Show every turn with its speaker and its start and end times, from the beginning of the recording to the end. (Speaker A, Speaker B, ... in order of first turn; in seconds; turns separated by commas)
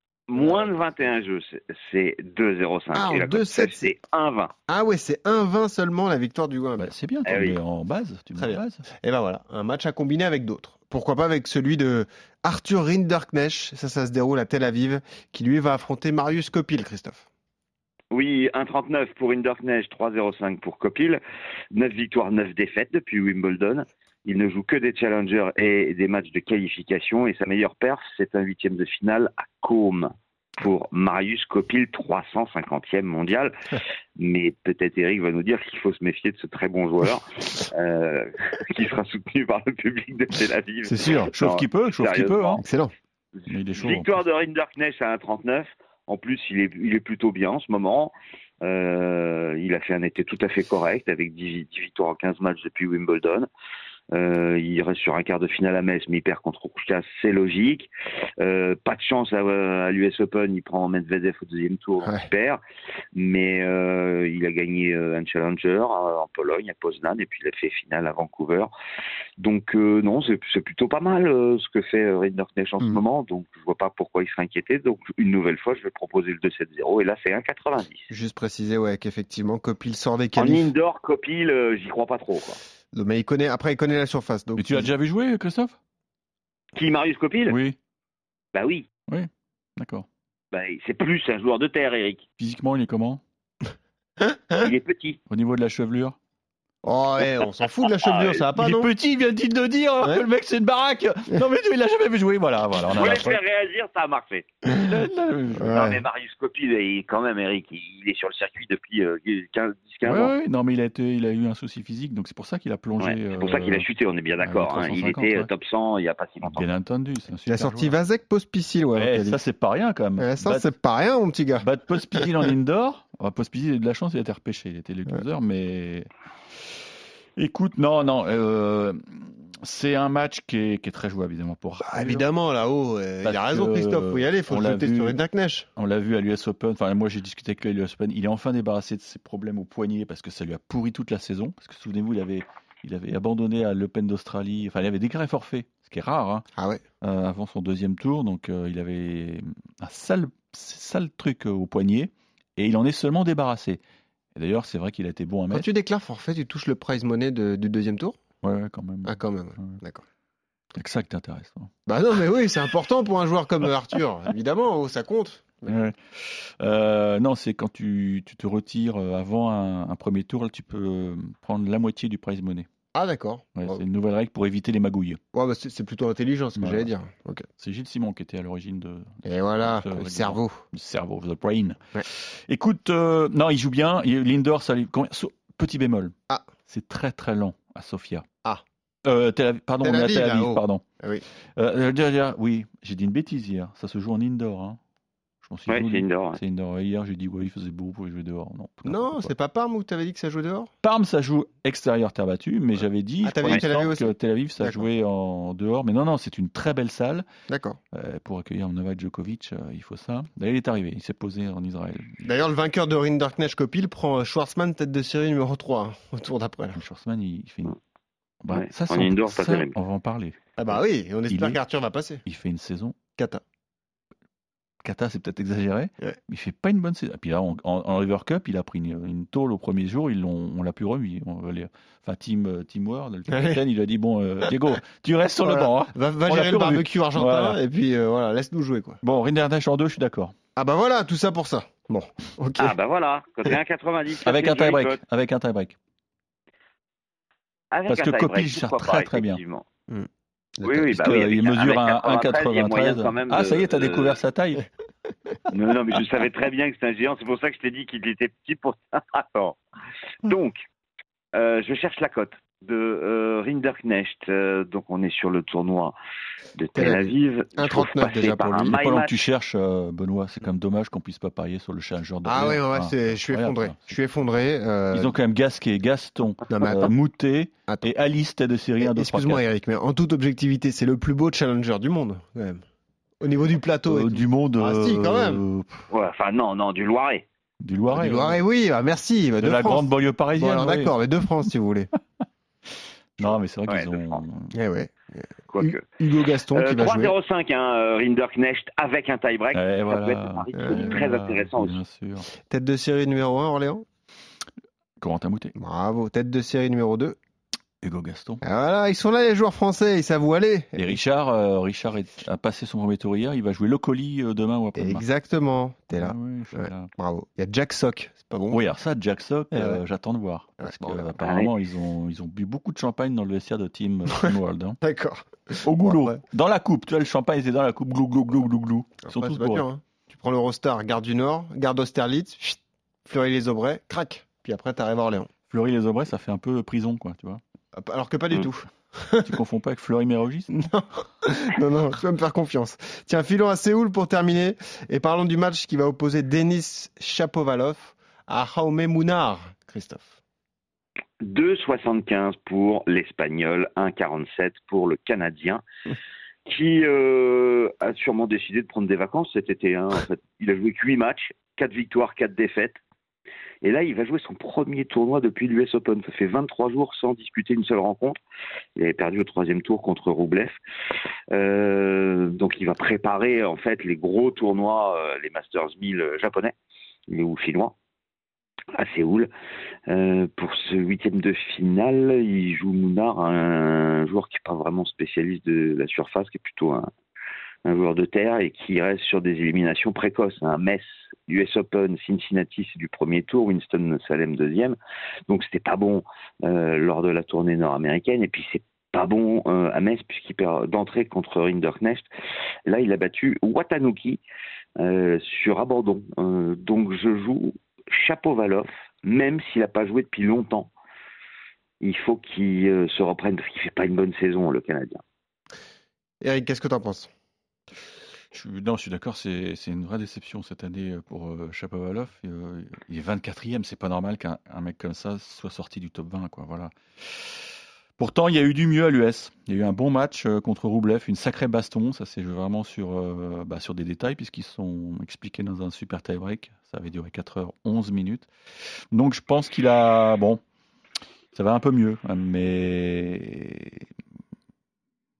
Speaker A: 0.3-4.5, Speaker B: 0.3-0.8, Speaker B: 2.9-3.9, Speaker B: 4.7-6.9, Speaker C: 6.8-8.9, Speaker A: 7.2-7.6, Speaker B: 8.3-17.2, Speaker A: 18.1-21.2, Speaker A: 21.7-33.5, Speaker A: 34.2-42.6, Speaker B: 40.8-41.3, Speaker C: 41.3-42.6, Speaker B: 42.6-42.9, Speaker C: 43.5-44.1, Speaker A: 43.7-53.5, Speaker A: 54.1-57.9, Speaker A: 58.4-62.6, Speaker A: 63.1-68.7, Speaker A: 69.4-78.1, Speaker B: 78.1-80.7, Speaker A: 80.3-82.6, Speaker B: 82.9-84.9, Speaker C: 84.5-85.8, Speaker A: 86.8-87.6, Speaker C: 87.5-87.8, Speaker A: 88.5-88.9, Speaker C: 89.1-90.0, Speaker A: 90.5-92.2, Speaker C: 92.4-93.2, Speaker A: 94.6-95.2, Speaker C: 95.3-96.2, Speaker B: 96.8-98.9, Speaker A: 98.0-98.4, Speaker C: 98.5-103.3, Speaker A: 102.9-104.5, Speaker C: 104.7-105.8, Speaker B: 105.6-106.0, Speaker A: 105.6-110.3, Speaker C: 110.0-113.8, Speaker A: 113.0-116.7, Speaker C: 114.4-115.5, Speaker C: 116.4-118.0, Speaker B: 117.5-119.4, Speaker C: 118.9-120.7, Speaker B: 120.2-122.5, Speaker C: 121.6-126.1, Speaker C: 127.4-132.2, Speaker B: 131.8-135.7, Speaker C: 133.2-135.2, Speaker C: 135.8-146.4, Speaker B: 146.6-146.8, Speaker C: 147.0-153.8, Speaker C: 154.3-155.7, Speaker B: 155.5-158.2, Speaker C: 158.4-159.8, Speaker B: 159.0-160.0, Speaker C: 160.8-161.7, Speaker B: 161.8-165.8, Speaker C: 165.7-172.7, Speaker B: 172.9-173.8, Speaker C: 173.6-175.2, Speaker B: 175.3-177.5, Speaker C: 176.6-176.9, Speaker C: 177.6-186.1, Speaker B: 179.2-180.6, Speaker C: 186.7-188.2, Speaker C: 189.0-190.8, Speaker B: 189.8-191.2, Speaker C: 191.6-194.8, Speaker C: 195.4-199.3, Speaker A: 195.7-196.4, Speaker B: 198.8-200.7, Speaker C: 200.8-207.3, Speaker B: 203.2-204.9, Speaker B: 207.5-207.8, Speaker C: 207.9-212.2, Speaker B: 212.2-216.8, Speaker C: 216.7-217.8, Speaker C: 218.4-220.7, Speaker A: 218.5-219.7, Speaker B: 220.6-222.2, Speaker C: 221.3-221.6, Speaker C: 222.2-222.9, Speaker B: 223.2-223.4, Speaker C: 224.8-237.6, Speaker B: 233.3-233.6, Speaker B: 235.4-239.0, Speaker C: 239.0-240.3, Speaker B: 240.6-242.8, Speaker A: 242.6-245.0, Speaker C: 244.2-245.8, Speaker A: 247.7-249.7, Speaker C: 247.9-249.4, Speaker B: 249.9-251.1, Speaker A: 250.6-254.2, Speaker C: 250.9-254.6, Speaker A: 255.5-259.6, Speaker A: 260.2-260.6, Speaker A: 261.3-265.9, Speaker A: 266.6-269.2, Speaker B: 266.8-268.8, Speaker C: 268.6-274.0, Speaker B: 272.2-275.1, Speaker C: 274.9-279.4, Speaker B: 276.5-276.9, Speaker B: 278.8-282.6, Speaker B: 283.2-285.4, Speaker C: 283.9-285.8, Speaker A: 285.9-287.2, Speaker C: 287.6-288.4, Speaker B: 287.9-291.9, Speaker C: 289.4-290.9, Speaker C: 293.2-294.6, Speaker A: 293.7-294.2, Speaker B: 294.5-297.1, Speaker A: 295.5-295.9, Speaker A: 296.5-301.8, Speaker C: 299.5-302.3, Speaker B: 300.5-301.0, Speaker B: 302.5-303.8, Speaker C: 305.0-305.5, Speaker B: 305.6-307.1, Speaker C: 307.8-308.4, Speaker B: 308.4-311.0, Speaker C: 310.8-315.0, Speaker B: 314.8-318.6, Speaker C: 315.9-316.9, Speaker C: 318.5-324.8, Speaker B: 319.5-319.8, Speaker B: 320.6-321.1, Speaker A: 321.2-321.5, Speaker B: 324.2-326.2, Speaker C: 325.6-329.6, Speaker B: 329.1-335.3, Speaker C: 335.5-337.4, Speaker B: 337.8-339.3, Speaker C: 339.2-340.5, Speaker B: 340.5-350.2, Speaker A: 351.2-355.6, Speaker A: 356.4-362.8, Speaker A: 363.6-368.2, Speaker A: 368.8-370.6, Speaker A: 371.3-376.5, Speaker A: 377.1-377.7, Speaker A: 378.8-379.3, Speaker A: 379.9-386.9, Speaker A: 387.6-394.8, Speaker A: 395.3-402.1, Speaker A: 402.6-404.2, Speaker A: 404.8-410.7, Speaker A: 411.8-415.0, Speaker B: 416.2-417.1, Speaker C: 418.3-427.4, Speaker C: 428.0-438.3, Speaker C: 438.9-440.4, Speaker C: 441.3-443.9